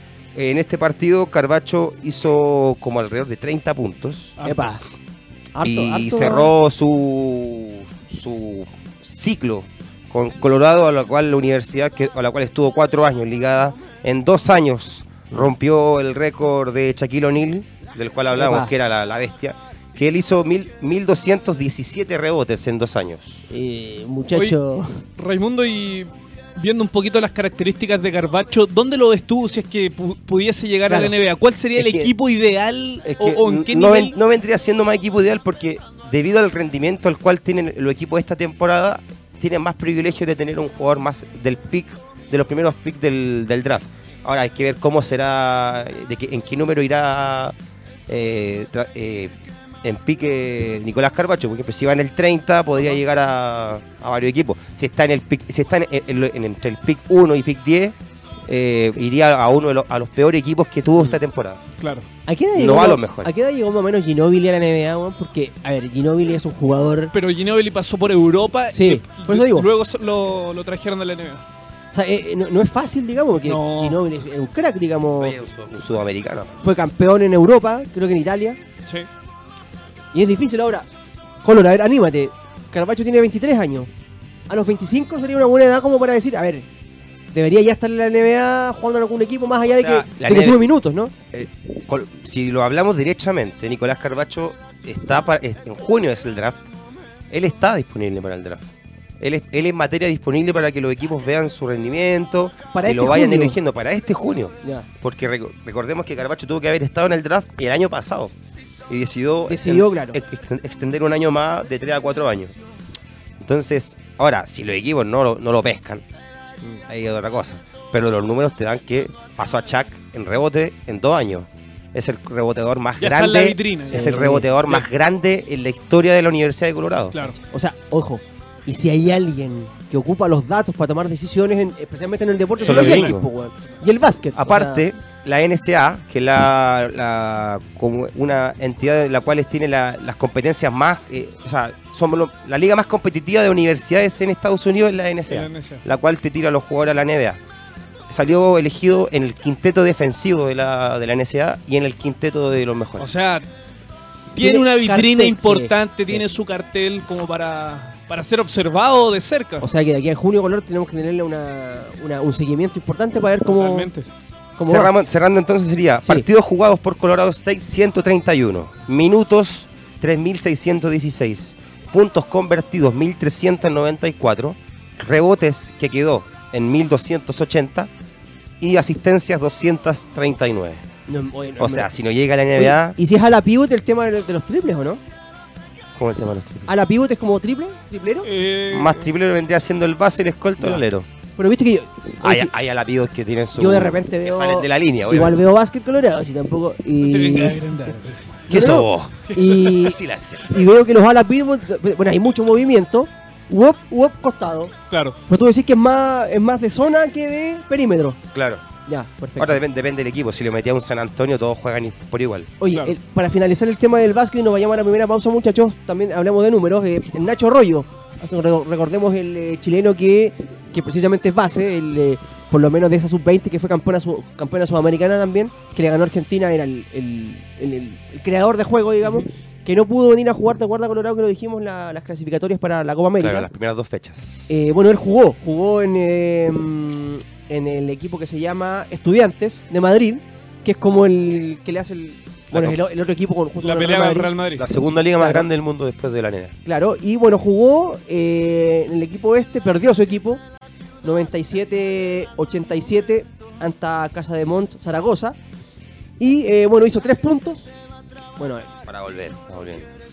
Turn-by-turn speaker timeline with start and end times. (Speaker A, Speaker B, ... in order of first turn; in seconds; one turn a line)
Speaker A: 0.3-4.4
Speaker B: 4.4-4.7
Speaker C: 4.4-4.8
Speaker C: 5.5-6.5
Speaker A: 5.6-23.5
Speaker C: 18.3-18.7
Speaker C: 23.5-25.0
Speaker B: 25.2-34.2
Speaker C: 30.9-31.1
Speaker A: 31.8-32.1
Speaker A: 33.0-47.5
Speaker A: 48.1-58.0
Speaker A: 58.5-61.6
Speaker B: 61.8-62.1
Speaker C: 62.3-67.1
Speaker A: 62.5-63.3
Speaker B: 67.1-71.4
Speaker C: 68.7-69.7
Speaker C: 71.9-75.4
Speaker B: 73.5-74.0
Speaker A: 75.2-76.6
Speaker C: 76.6-78.6
Speaker C: 80.1-80.9
Speaker C: 81.4-83.9
Speaker C: 84.5-86.7
Speaker C: 87.3-91.1
Speaker A: 89.7-90.7
Speaker A: 91.3-96.7
Speaker A: 97.3-108.3
Speaker C: 102.7-103.6
Speaker A: 108.9-112.6
Speaker C: 109.5-110.2
Speaker A: 113.4-116.0
Speaker A: 116.9-127.2
Speaker B: 123.0-124.8
Speaker C: 123.9-124.5
Speaker C: 127.3-134.8
Speaker B: 132.6-133.2
Speaker A: 132.6-133.3
Speaker A: 134.4-147.4
Speaker B: 145.3-145.8
Speaker A: 148.1-153.1
Speaker B: 153.0-153.5
Speaker B: 154.3-159.6
Speaker C: 154.4-156.2
Speaker C: 159.6-163.9
Speaker B: 163.5-164.1
Speaker C: 164.6-164.9
Speaker A: 164.7-177.9
Speaker A: 178.6-180.8
Speaker C: 181.1-181.9
Speaker A: 181.6-183.0
Speaker C: 182.6-185.0
Speaker A: 186.0-186.7
Speaker C: 186.7-188.3
Speaker B: 188.2-189.1
Speaker A: 188.7-191.1
Speaker C: 191.4-192.5
Speaker A: 192.2-195.4
Speaker C: 193.6-198.0
Speaker B: 197.0-198.2
Speaker A: 198.5-200.6
Speaker C: 198.5-204.7
Speaker B: 199.3-199.8
Speaker B: 204.9-205.2
Speaker C: 205.3-208.2
Speaker A: 208.3-208.6
Speaker C: 208.9-209.6
Speaker A: 209.4-212.5
Speaker C: 212.6-233.5
Speaker A: 233.2-234.5
Speaker C: 234.5-244.3
Speaker B: 243.6-244.7
Speaker A: 244.6-246.5
Speaker C: 245.2-245.5
Speaker C: 246.7-250.4
Speaker C: 251.0-255.4
Speaker C: 256.2-257.7
Speaker C: 258.4-258.7
Speaker A: 258.9-259.9